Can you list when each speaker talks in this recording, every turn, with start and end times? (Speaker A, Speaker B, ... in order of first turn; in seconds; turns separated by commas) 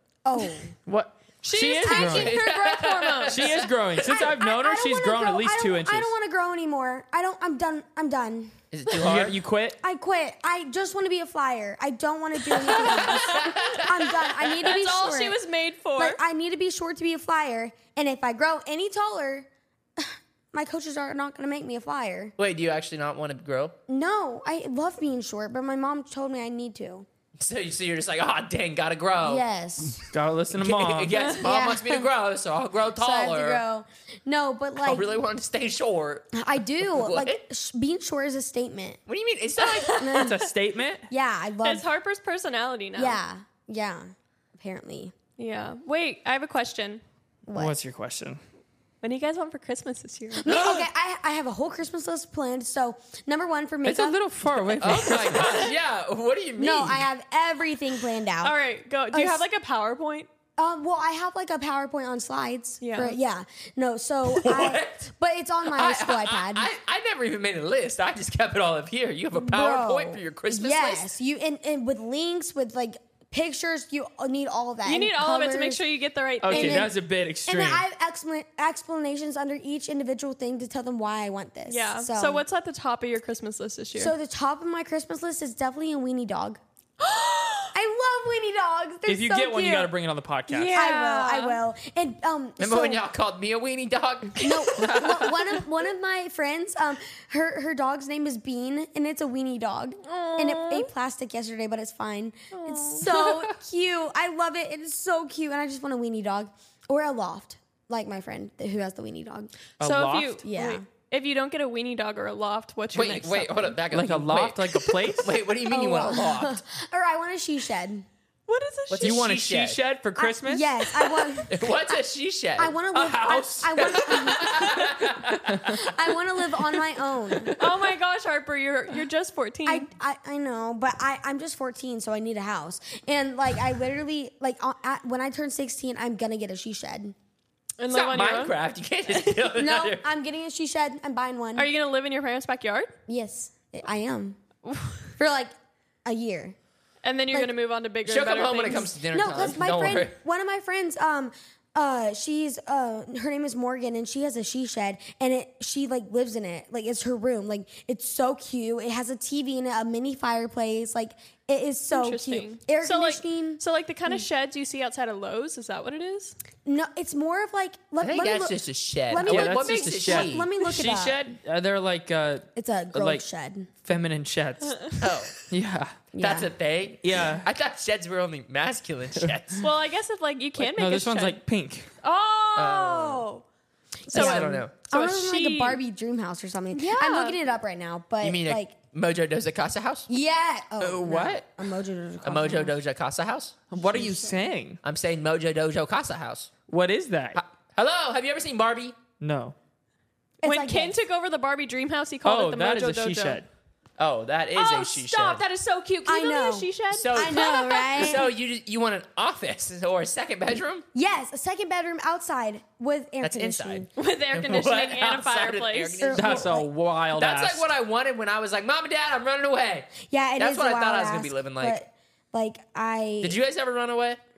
Speaker A: 0.2-0.7, Speaker B: 0.9-2.4, Speaker C: 1.4-3.6, Speaker D: 2.0-3.6, Speaker B: 3.3-6.1, Speaker A: 4.0-8.5, Speaker D: 8.7-9.4, Speaker B: 9.0-9.8, Speaker A: 9.8-15.4, Speaker C: 12.5-16.2, Speaker D: 13.3-13.7, Speaker A: 16.0-22.4, Speaker D: 22.4-23.8, Speaker A: 23.9-27.1, Speaker D: 27.4-29.4, Speaker A: 29.2-30.1, Speaker B: 30.1-31.2, Speaker D: 30.6-33.6, Speaker A: 31.4-32.1, Speaker A: 33.0-35.1, Speaker D: 34.8-37.4, Speaker A: 36.3-39.0, Speaker D: 39.1-40.0, Speaker C: 39.6-40.3, Speaker A: 39.9-40.4, Speaker B: 40.1-41.1, Speaker A: 41.1-41.9, Speaker C: 41.6-43.2, Speaker A: 43.0-45.1, Speaker C: 45.4-47.0, Speaker A: 47.5-47.8, Speaker B: 47.5-48.4, Speaker C: 49.0-50.7, Speaker A: 50.3-54.2, Speaker B: 53.9-55.7, Speaker D: 54.8-57.1, Speaker A: 56.6-58.6, Speaker C: 58.4-60.3, Speaker A: 59.1-59.4, Speaker A: 60.6-66.7, Speaker C: 62.8-63.2, Speaker D: 64.3-65.1, Speaker D: 65.7-71.1, Speaker A: 69.3-75.8, Speaker C: 74.8-76.9, Speaker B: 76.4-77.8, Speaker A: 76.5-82.4, Speaker C: 81.7-84.1, Speaker A: 84.0-86.6, Speaker C: 87.0-87.7, Speaker A: 87.7-89.9, Speaker B: 89.1-90.9, Speaker C: 90.5-91.6, Speaker A: 90.7-93.0, Speaker D: 92.6-94.7, Speaker A: 94.4-109.5, Speaker B: 94.7-95.5, Speaker C: 100.0-100.9, Speaker C: 102.5-103.0, Speaker B: 103.0-103.5, Speaker B: 109.8-110.4, Speaker C: 109.8-113.8, Speaker A: 110.4-110.8, Speaker D: 112.9-116.6, Speaker B: 113.9-115.4, Speaker A: 115.6-118.1, Speaker C: 118.5-119.2, Speaker D: 118.9-119.8, Speaker B: 119.0-120.7, Speaker A: 120.2-122.0, Speaker D: 121.5-122.8, Speaker A: 122.6-125.0, Speaker B: 122.9-125.8, Speaker D: 124.1-125.4, Speaker A: 125.6-127.6, Speaker B: 127.4-127.7, Speaker C: 127.6-129.9, Speaker A: 129.7-137.2, Speaker C: 137.8-138.6, Speaker D: 137.9-140.0, Speaker A: 139.3-141.7, Speaker C: 141.6-142.9, Speaker A: 143.1-144.4, Speaker C: 144.7-145.1, Speaker A: 145.2-146.6, Speaker C: 147.0-148.9, Speaker D: 148.1-150.1, Speaker A: 148.7-164.2, Speaker C: 161.9-166.4, Speaker A: 166.7-171.2, Speaker D: 168.0-170.5, Speaker B: 169.2-173.2, Speaker A: 172.6-173.7, Speaker B: 173.8-175.9, Speaker D: 175.0-175.3, Speaker A: 176.1-176.5, Speaker D: 176.2-179.7, Speaker B: 177.0-177.4, Speaker C: 179.6-181.4, Speaker B: 180.6-181.9, Speaker C: 182.0-183.4, Speaker D: 182.6-183.3, Speaker A: 184.1-188.8, Speaker D: 184.1-184.7, Speaker C: 184.1-185.8, Speaker C: 186.7-187.4, Speaker D: 188.2-190.1, Speaker A: 190.1-192.8, Speaker B: 190.8-191.4, Speaker D: 192.2-193.5, Speaker B: 193.7-194.8, Speaker A: 193.9-194.3, Speaker D: 194.8-196.5, Speaker B: 196.7-197.4, Speaker D: 197.3-199.0, Speaker B: 199.2-199.6, Speaker A: 200.4-201.0, Speaker C: 200.4-203.4, Speaker B: 202.2-203.5, Speaker D: 204.0-205.4, Speaker C: 204.6-208.2, Speaker A: 206.1-208.3, Speaker D: 206.9-210.8, Speaker A: 210.9-213.9, Speaker D: 213.2-216.6, Speaker C: 214.0-216.0, Speaker A: 215.9-216.7, Speaker B: 216.2-217.7, Speaker D: 217.2-221.8, Speaker A: 220.0-223.4, Speaker D: 223.2-224.2